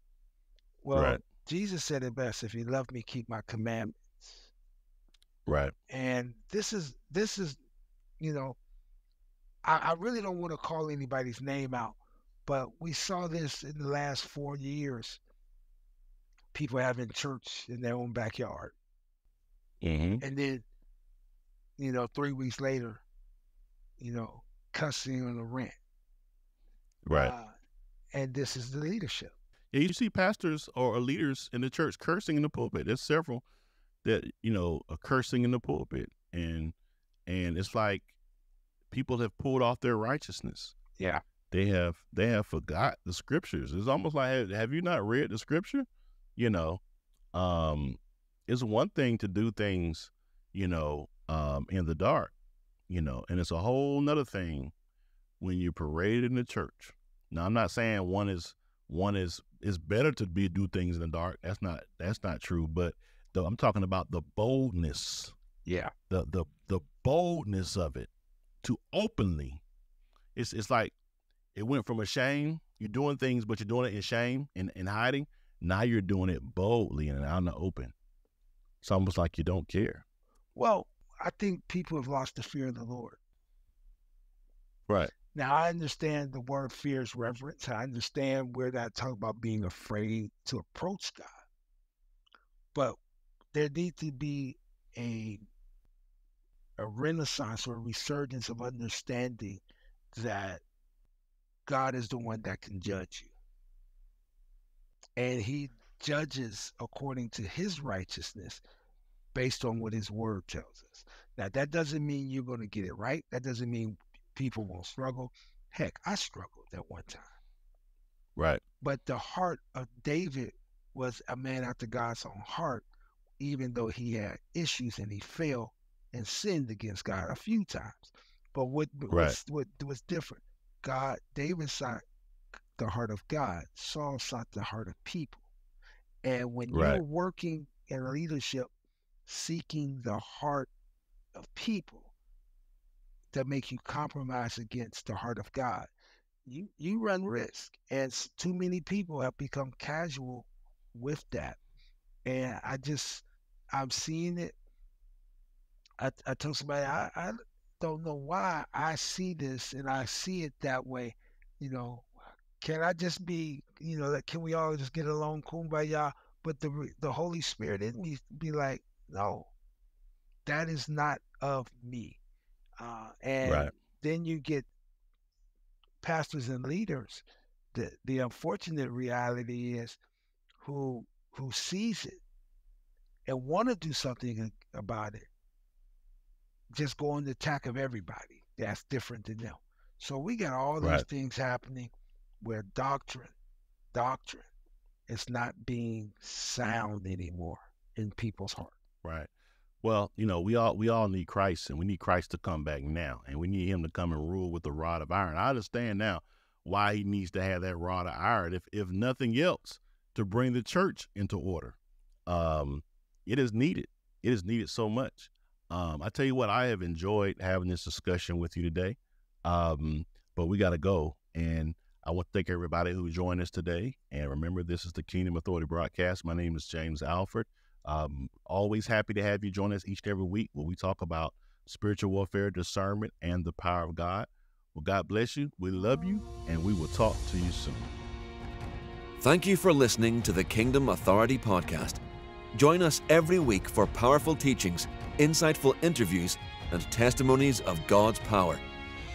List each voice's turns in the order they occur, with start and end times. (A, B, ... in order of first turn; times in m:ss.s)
0:00.8-0:04.5 A
0:00.9-0:01.2 B
0:05.5-0:05.7 B
0:05.9-0:07.6 A
0:08.2-0:08.6 A
0:09.6-0:15.2 A
0:16.5-0:18.7 A
0:19.8-0:20.2 B
0:20.2-0:20.6 A
0:21.8-0:23.0 A
0:24.0-0:25.8 A
0:27.0-0:27.3 B
0:27.1-0:27.5 A
0:28.1-0:29.3 A
0:29.7-0:33.4 B
0:34.0-0:36.7 B
0:37.3-0:38.1 B
0:38.9-0:40.7 B
0:41.0-0:41.2 A
0:41.5-0:46.8 B
0:47.3-0:52.3 B
0:52.9-0:54.7 B
0:55.4-1:05.3 B
1:05.6-1:05.9 A
1:06.1-1:08.1 B
1:08.6-1:09.6 B
1:10.4-1:10.9 B
1:11.5-1:17.9 B
1:18.8-1:20.0 B
1:20.5-1:23.2 A
1:24.9-1:25.1 B
1:25.3-1:31.3 A
1:33.5-1:35.4 A
1:36.8-1:39.6 A
1:40.1-1:40.6 A
1:41.6-1:43.3 A
1:45.2-1:48.6 A
1:49.3-1:57.3 A
1:58.4-1:58.6 B
1:58.8-2:02.8 A
2:03.4-2:12.0 A
2:09.1-2:09.4 B
2:12.8-2:15.5 A
2:16.2-2:18.7 A
2:16.7-2:17.0 B
2:19.2-2:20.7 A
2:21.3-2:22.1 A
2:23.3-2:25.9 A
2:26.4-2:31.6 A
2:32.2-2:34.5 A
2:36.0-2:49.5 A
2:50.4-2:52.2 A
2:52.8-2:54.7 A
2:53.4-2:53.7 B
2:56.0-2:57.2 A
2:57.7-3:00.0 A
3:00.6-3:02.2 A
3:03.3-3:05.3 A
3:06.7-3:11.9 A
3:12.4-3:13.3 A
3:13.9-3:14.5 A
3:15.1-3:18.7 A
3:19.0-3:19.3 B
3:19.8-3:57.9 B
3:59.2-4:02.0 C
4:02.5-4:08.6 C